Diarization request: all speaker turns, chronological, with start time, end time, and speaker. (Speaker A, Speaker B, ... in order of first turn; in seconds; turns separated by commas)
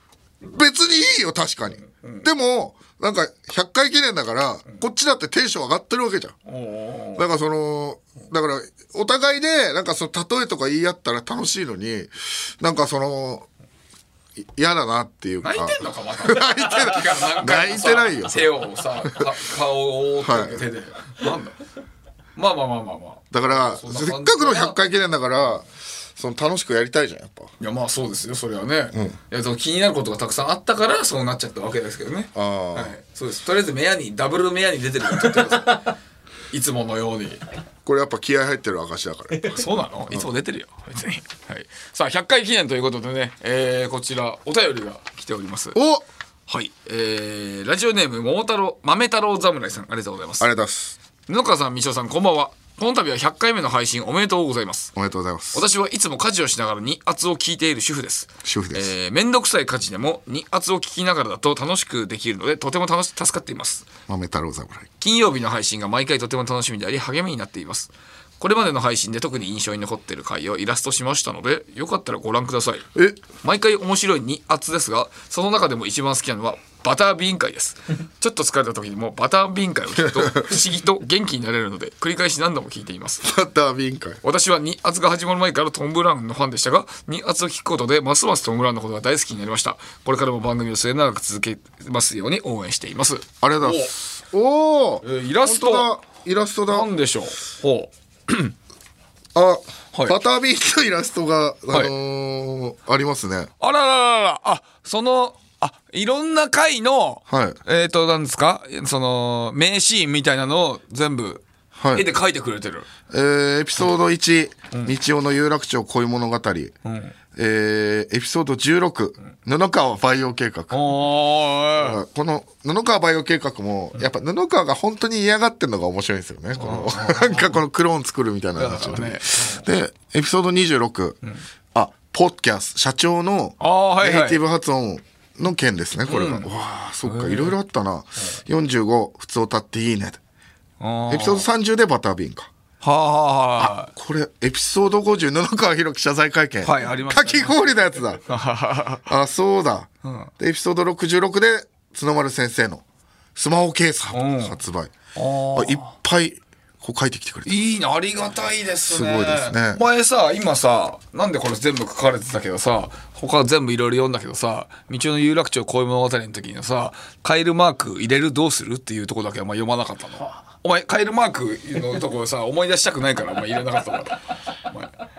Speaker A: 0.4-6.3, Speaker B: 1.8-2.3, Speaker B: 6.5-7.2, Speaker A: 7.2-13.5, Speaker A: 14.4-19.2, Speaker B: 15.4-21.6, Speaker A: 20.2-20.6, Speaker B: 22.4-24.8, Speaker A: 23.3-25.6, Speaker A: 26.1-27.5, Speaker B: 27.6-35.9, Speaker A: 28.9-29.2, Speaker A: 32.3-32.9, Speaker B: 36.5-37.4, Speaker A: 37.8-40.3, Speaker B: 39.4-45.8, Speaker A: 45.7-46.0, Speaker B: 46.5-50.5, Speaker A: 50.4-51.0, Speaker B: 51.3-54.9, Speaker A: 54.9-55.6, Speaker B: 55.5-63.9, Speaker A: 58.4-58.9, Speaker A: 64.1-64.9, Speaker B: 65.0-72.8, Speaker A: 72.9-73.2, Speaker B: 73.4-83.2, Speaker A: 83.2-84.2, Speaker B: 84.2-93.9, Speaker A: 93.4-96.9, Speaker B: 95.0-95.9, Speaker B: 96.7-98.5, Speaker A: 99.3-103.5, Speaker B: 99.9-100.2, Speaker B: 103.6-112.9, Speaker A: 107.3-107.6, Speaker A: 111.8-112.1, Speaker A: 113.1-116.7, Speaker B: 116.8-117.1, Speaker A: 117.3-120.9, Speaker B: 120.7-122.0, Speaker A: 121.7-131.2, Speaker B: 126.6-127.6, Speaker B: 128.6-129.7, Speaker A: 131.7-140.2, Speaker B: 133.6-134.4, Speaker B: 136.1-136.5, Speaker B: 137.0-137.5, Speaker B: 140.8-141.5, Speaker A: 141.1-142.5, Speaker B: 142.8-143.9, Speaker A: 143.6-148.2, Speaker B: 146.6-147.6, Speaker B: 148.2-149.0, Speaker A: 149.1-152.8, Speaker B: 150.0-150.3, Speaker A: 153.3-154.9, Speaker B: 154.1-154.6, Speaker B: 155.1-155.9, Speaker A: 155.5-157.6, Speaker B: 157.4-174.9, Speaker A: 158.9-159.8